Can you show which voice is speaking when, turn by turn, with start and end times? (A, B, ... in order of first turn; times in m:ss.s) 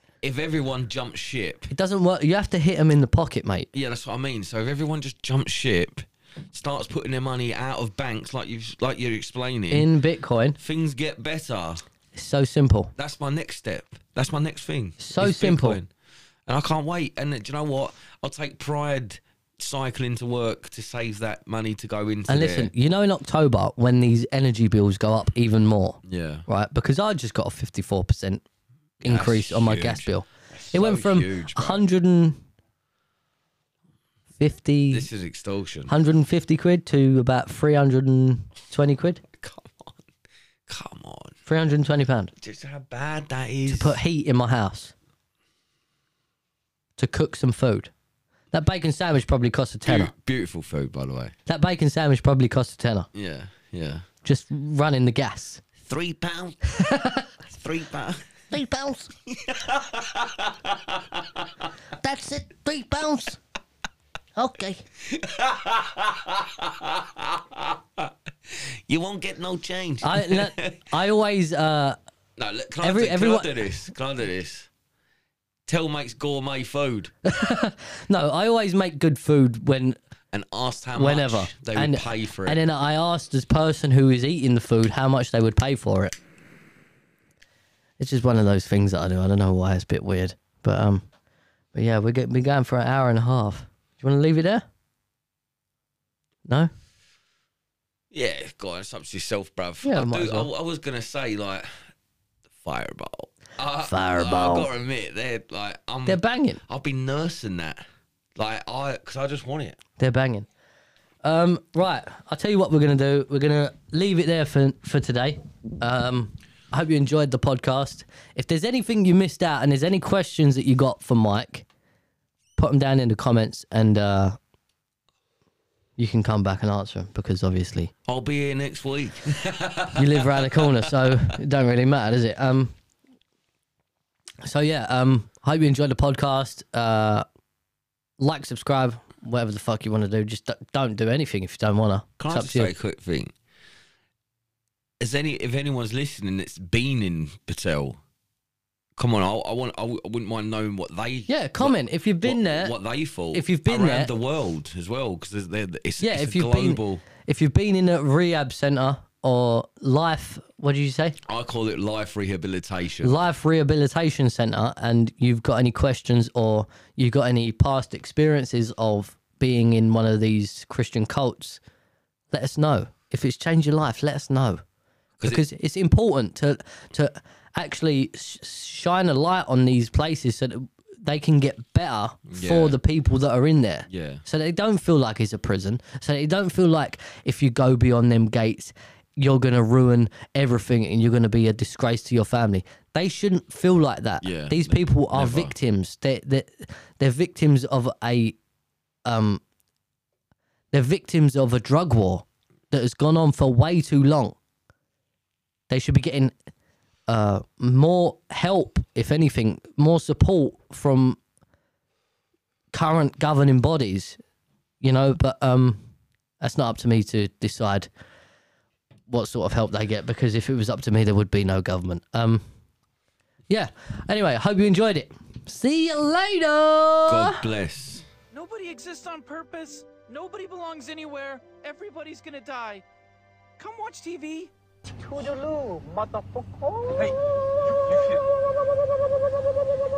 0:00.2-0:01.7 A
0:01.7-0:03.7 B
0:03.7-0:09.9 A
0:09.7-0:10.6 B
0:10.6-0:11.8 A
0:12.2-0:12.9 B
0:13.0-0:15.9 A
0:15.0-0:15.8 B
0:16.5-0:22.7 A
0:22.3-0:28.4 B
0:26.0-0:26.5 A
0:29.0-0:32.4 B
0:29.0-0:31.8 A
0:34.4-0:35.1 B
0:34.9-0:36.0 A
0:35.9-0:39.2 B
0:39.2-0:40.0 A
0:40.7-0:41.4 A
0:41.5-0:42.3 B
0:42.4-0:44.0 A
0:43.7-0:44.9 B
0:47.0-0:47.9 B
0:48.5-0:50.1 B
0:49.9-0:51.3 A
0:51.5-0:53.1 B
0:53.1-0:54.1 A
0:54.2-0:55.6 B
0:55.8-0:56.6 A
0:56.7-0:57.3 B
0:57.4-0:58.3 A
0:58.5-0:59.1 B
0:59.3-1:01.5 A
1:02.0-1:03.4 B
1:04.4-1:04.8 B
1:05.0-1:10.9 A
1:10.0-1:12.0 B
1:12.4-1:14.7 A
1:12.8-1:13.6 B
1:15.7-1:17.1 A
1:17.2-1:20.0 B
1:20.3-1:22.6 A
1:21.0-1:26.2 B
1:28.0-1:31.0 B
1:31.7-1:34.6 B
1:36.5-1:36.7 B
1:38.1-1:41.9 A
1:39.8-1:40.5 B
1:42.6-1:47.8 A
1:43.8-1:44.7 B
1:46.1-1:46.6 B
1:48.4-1:49.8 A
1:50.0-1:50.5 B
1:51.2-2:01.7 B
2:02.6-2:04.4 B
2:06.0-2:07.9 B
2:08.1-2:11.3 A
2:10.0-2:12.7 B
2:14.4-2:17.2 B
2:18.2-2:22.7 B
2:22.2-2:23.3 A
2:25.0-2:28.0 A
2:29.0-2:37.0 A
2:31.3-2:32.8 B
2:33.3-2:34.1 B
2:36.0-2:41.2 B
2:41.3-2:43.2 A
2:43.0-2:51.6 B
2:52.3-2:54.6 B
2:55.2-2:55.4 A
2:55.2-3:18.4 B
3:02.3-3:02.8 A
3:03.9-3:04.2 A
3:14.2-3:15.5 A
3:19.0-3:19.4 B
3:20.7-3:24.4 B
3:25.7-3:26.3 B
3:27.1-3:31.2 B
3:32.7-3:34.2 B
3:34.8-3:35.8 B
3:36.4-3:37.9 B
3:39.1-3:42.4 B
3:43.5-3:47.4 B
3:47.1-3:48.0 A
3:48.3-3:52.8 C
3:53.6-3:58.3 C